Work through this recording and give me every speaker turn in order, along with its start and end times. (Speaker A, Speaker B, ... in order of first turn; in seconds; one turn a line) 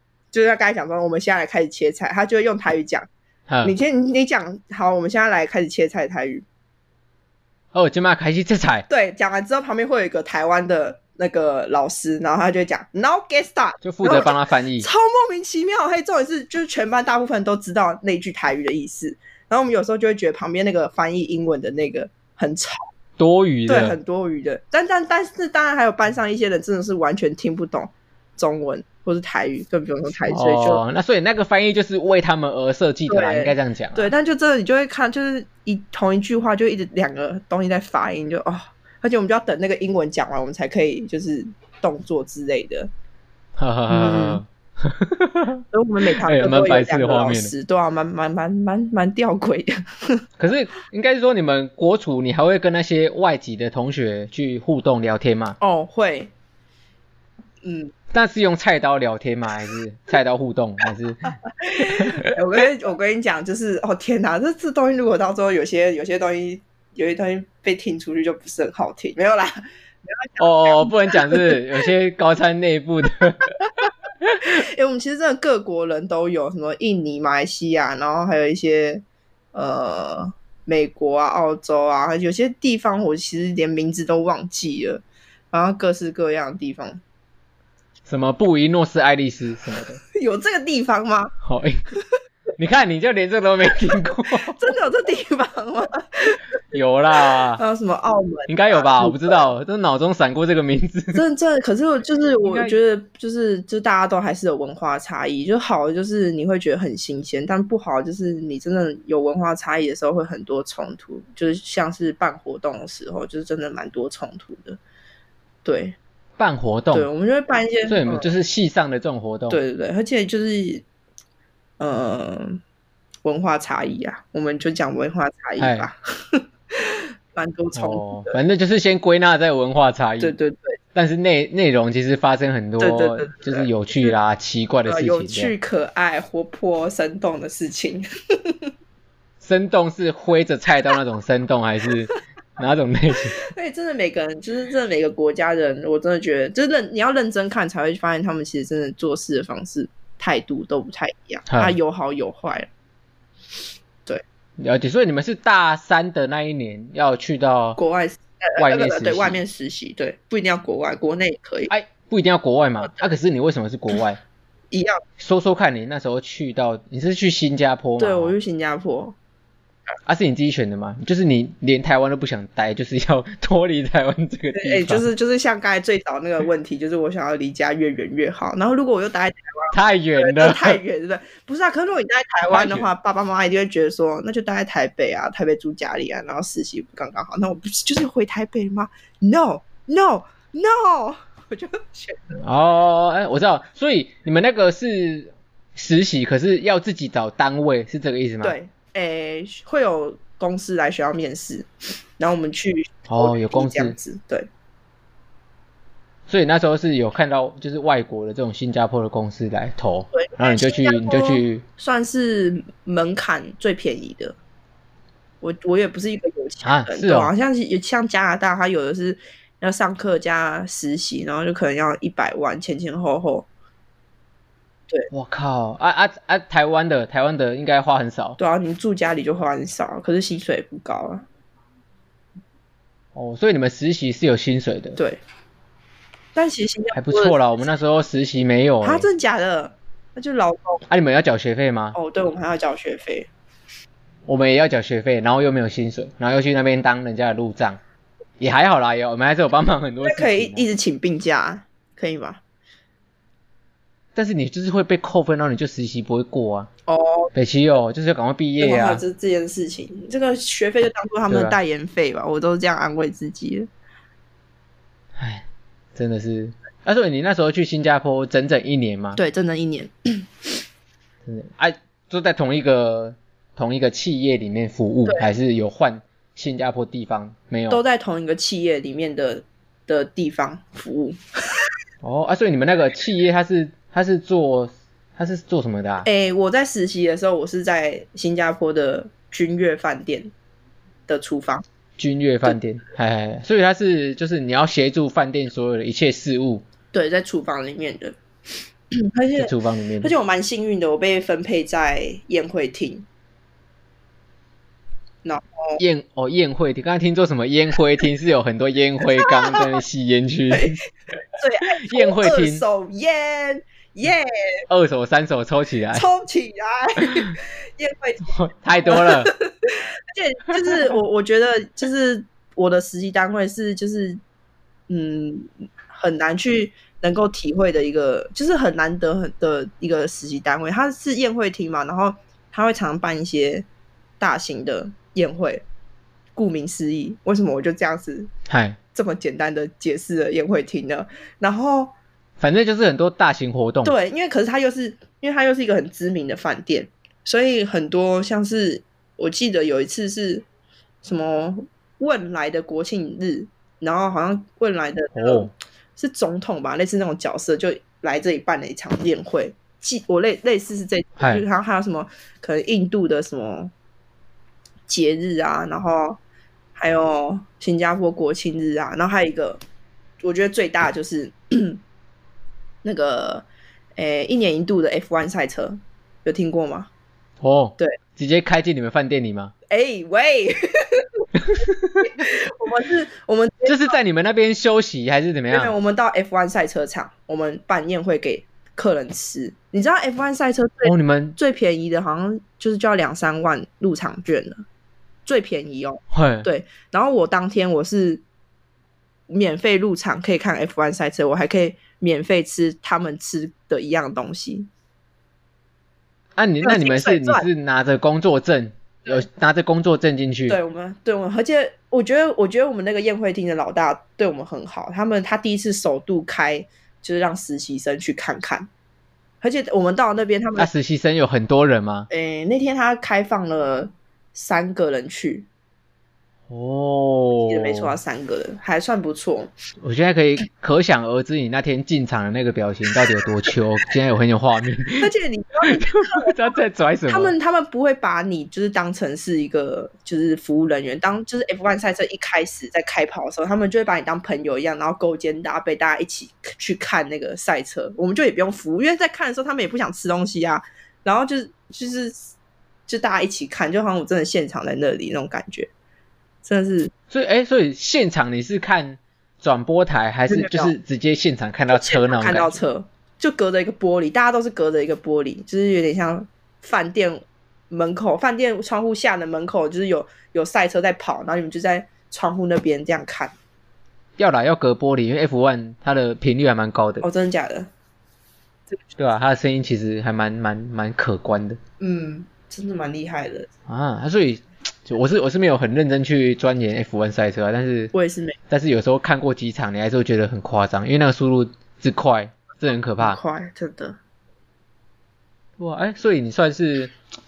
Speaker A: 0.3-3.1
Speaker B: 3.5-3.7
Speaker A: 3.6-6.4
Speaker B: 7.7-8.9
Speaker A: 8.9-22.9
Speaker B: 13.8-14.9
Speaker B: 23.2-24.0
Speaker A: 23.7-30.8
Speaker B: 30.3-34.1
Speaker A: 33.1-42.9
Speaker B: 43.6-45.6
Speaker A: 43.9-44.4
Speaker A: 45.7-50.2
Speaker B: 46.2-47.5
Speaker B: 50.4-55.6
Speaker A: 55.6-56.3
Speaker A: 57.6-57.9
Speaker B: 58.1-62.3
Speaker A: 61.5-71.5
Speaker B: 70.4-74.4
Speaker A: 74.4-87.0
Speaker B: 88.1-90.0
Speaker A: 90.1-91.3
Speaker B: 91.4-91.8
Speaker B: 92.6-94.6
Speaker A: 94.5-96.4
Speaker B: 96.7-97.6
Speaker A: 97.6-99.4
Speaker B: 98.5-101.2
Speaker A: 101.1-114.8
Speaker B: 102.4-102.8
Speaker A: 115.6-116.0
Speaker B: 116.4-117.1
Speaker A: 116.9-118.3
Speaker B: 117.9-119.6
Speaker A: 119.5-120.8
Speaker A: 121.8-122.6
Speaker A: 123.2-128.4
Speaker B: 125.6-125.9
Speaker B: 127.8-130.3
Speaker A: 130.2-130.8
Speaker B: 130.9-135.5
Speaker A: 132.8-134.1
Speaker A: 134.9-138.6
Speaker B: 139.4-143.4
Speaker A: 143.5-152.7
Speaker B: 151.5-151.8
Speaker B: 154.6-157.8
Speaker A: 157.8-161.7
Speaker B: 158.6-159.4
Speaker B: 161.7-164.2
Speaker A: 164.7-165.0
Speaker B: 165.2-168.3
Speaker A: 168.0-169.2
Speaker B: 170.1-175.0
Speaker A: 174.6-192.4
Speaker B: 179.7-180.8
Speaker B: 182.4-182.9
Speaker B: 192.4-198.5
Speaker A: 198.4-204.5
Speaker B: 203.1-203.9
Speaker B: 206.3-211.6
Speaker A: 210.1-214.3
Speaker A: 215.4-223.5
Speaker B: 216.6-217.3
Speaker B: 225.1-228.4
Speaker A: 228.4-231.2
Speaker B: 233.1-235.0
Speaker A: 234.9-235.2
Speaker A: 236.3-237.4
Speaker B: 236.9-239.1
Speaker A: 238.8-240.8
Speaker B: 240.9-241.9
Speaker A: 241.9-243.3
Speaker B: 244.2-247.8
Speaker B: 248.4-250.7
Speaker A: 250.0-252.4
Speaker B: 254.1-256.7
Speaker A: 256.9-257.3
Speaker B: 257.3-259.0
Speaker A: 258.6-263.7
Speaker B: 261.3-261.6
Speaker B: 265.2-269.2
Speaker A: 269.1-270.5
Speaker B: 271.2-277.8
Speaker A: 277.7-281.2
Speaker B: 282.0-286.1
Speaker A: 286.0-290.3
Speaker A: 291.1-291.6
Speaker B: 292.0-296.6
Speaker A: 296.9-298.2
Speaker A: 298.9-303.1
Speaker B: 299.4-300.1
Speaker A: 305.2-305.8
Speaker B: 305.8-310.8
Speaker A: 309.2-309.7
Speaker A: 310.5-310.8
Speaker A: 311.3-314.6
Speaker B: 311.8-312.6
Speaker B: 314.7-316.1
Speaker A: 315.9-318.3
Speaker B: 318.3-319.3
Speaker A: 318.9-324.2
Speaker A: 324.9-333.7
Speaker A: 334.2-335.6
Speaker A: 336.4-338.3
Speaker B: 338.5-338.8
Speaker A: 338.9-341.9
Speaker B: 342.4-343.9
Speaker A: 343.8-350.4
Speaker A: 351.0-363.7
Speaker B: 355.1-355.5
Speaker B: 361.2-361.4
Speaker A: 364.9-366.2
Speaker A: 366.8-369.6
Speaker A: 370.2-371.8
Speaker A: 372.8-373.4
Speaker A: 374.0-376.9
Speaker B: 377.4-379.5
Speaker A: 379.7-381.2
Speaker B: 381.5-381.8
Speaker A: 382.0-383.9
Speaker B: 383.6-385.7
Speaker A: 385.5-394.6
Speaker B: 390.8-391.4
Speaker A: 395.2-398.2
Speaker B: 396.1-396.5
Speaker A: 399.3-404.7
Speaker B: 406.4-410.6
Speaker A: 406.6-407.5
Speaker A: 410.5-418.7
Speaker A: 419.4-420.7
Speaker B: 420.6-422.1
Speaker A: 422.1-425.5
Speaker B: 426.5-427.9
Speaker A: 427.5-429.5
Speaker B: 429.8-435.1
Speaker A: 435.0-436.3
Speaker B: 435.7-437.3
Speaker A: 437.1-452.3
Speaker A: 452.9-455.7
Speaker A: 456.4-456.9
Speaker B: 457.1-462.6
Speaker A: 460.3-460.7
Speaker A: 461.7-473.3
Speaker B: 474.2-477.0
Speaker A: 477.0-477.7
Speaker B: 479.0-481.6
Speaker A: 481.8-483.5
Speaker B: 483.7-487.9
Speaker A: 487.9-488.4
Speaker B: 488.5-493.2
Speaker A: 493.0-494.0
Speaker B: 495.6-496.9